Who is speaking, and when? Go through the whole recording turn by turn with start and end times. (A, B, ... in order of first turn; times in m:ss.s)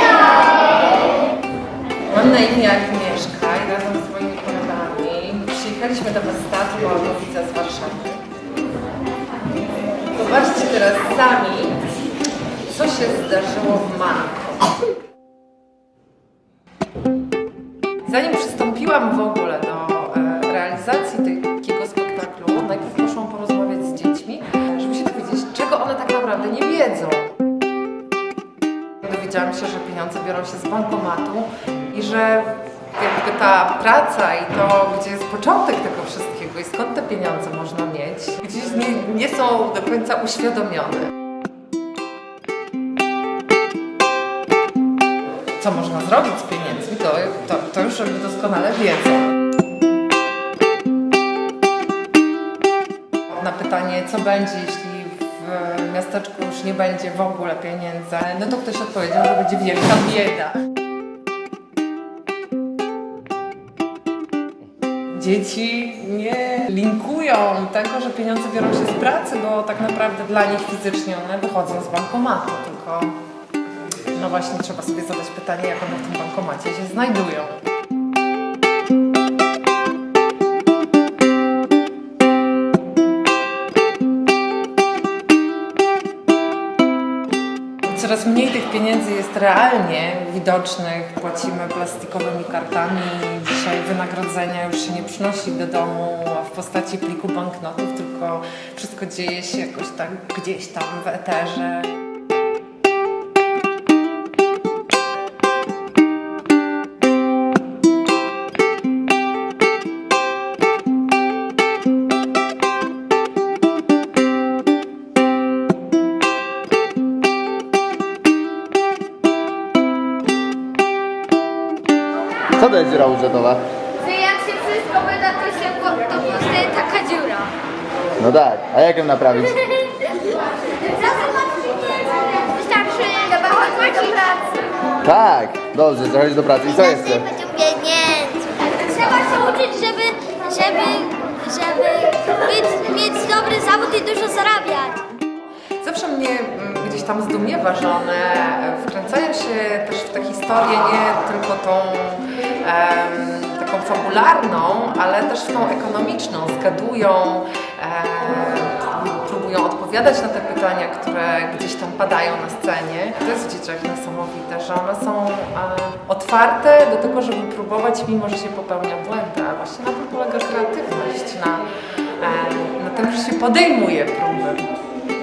0:02.1-0:08.2 A
0:10.1-0:11.8 A
0:12.7-0:14.7 A
0:18.0-0:27.3 A
0:29.0-0:41.1 A
0:45.6-0:49.4 A
0:53.3-1:00.6 A
1:05.1-1:13.2 A
1:14.0-1:17.6 A
1:27.8-1:42.0 A
2:02.5-2:03.6 B
2:04.0-2:07.5 C
2:08.2-2:09.7 B
2:10.8-2:14.6 C
2:15.0-2:17.4 B
2:17.3-2:25.0 C
2:25.8-2:54.7 A